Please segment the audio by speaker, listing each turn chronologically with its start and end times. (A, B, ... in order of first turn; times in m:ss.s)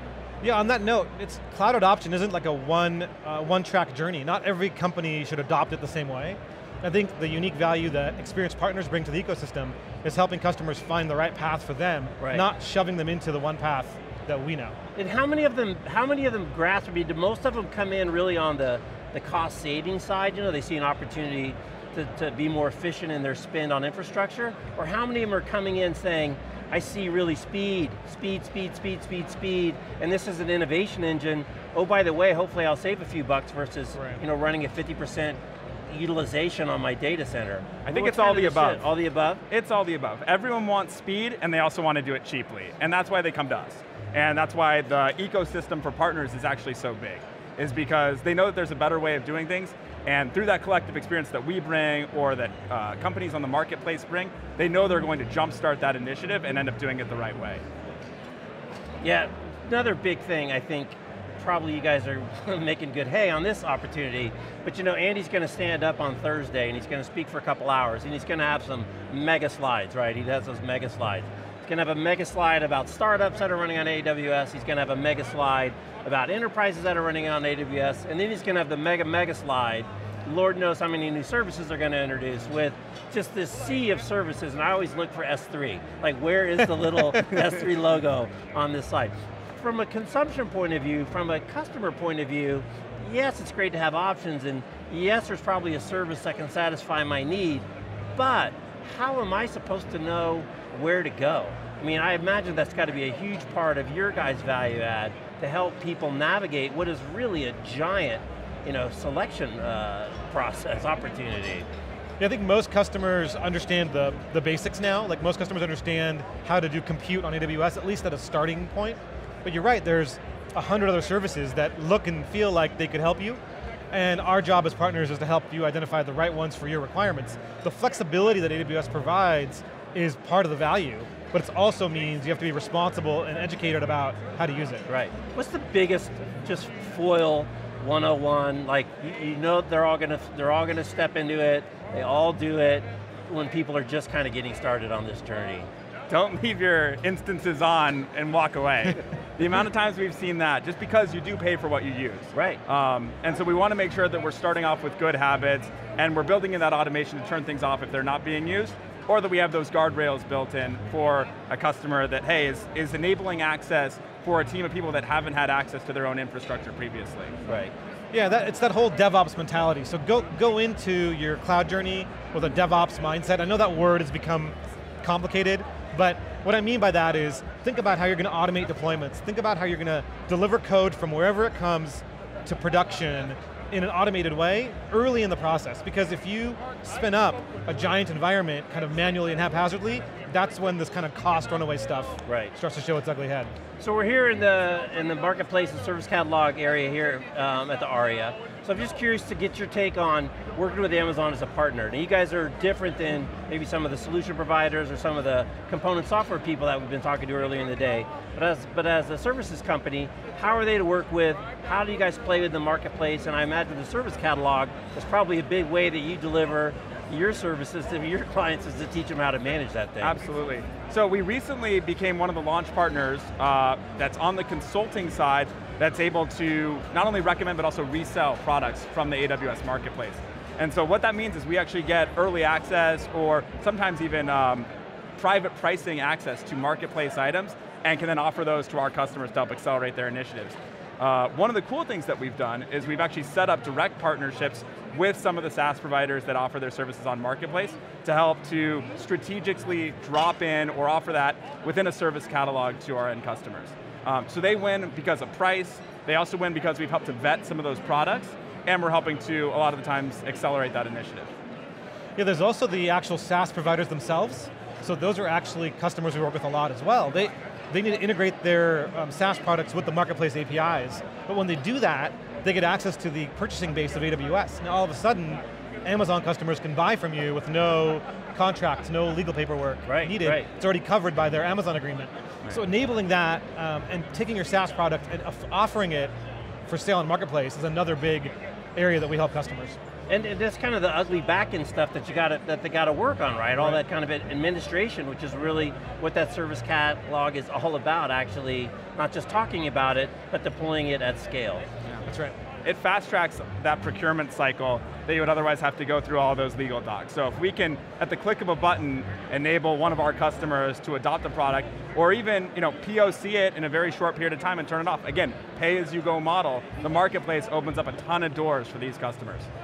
0:00.4-0:14.8 A
0:12.2-0:12.4 B
0:15.0-0:39.4 B
0:33.9-0:34.2 A
0:37.8-0:38.9 C
0:39.5-0:57.6 C
0:59.0-1:51.7 B
1:52.2-2:03.4 A
2:03.9-2:14.9 A
2:14.9-2:25.7 B
2:26.1-2:47.3 C
2:32.3-2:32.6 B
2:47.5-2:47.7 B
2:48.1-3:13.5 A
3:12.2-3:12.5 B
3:13.8-3:40.2 B
3:40.0-4:21.3 C
4:22.2-4:46.1 A
4:39.9-4:40.5 B
4:46.7-4:49.8 A
4:50.1-5:01.6 B
4:53.6-4:53.8 A
5:02.0-5:02.3 A
5:02.6-5:19.5 C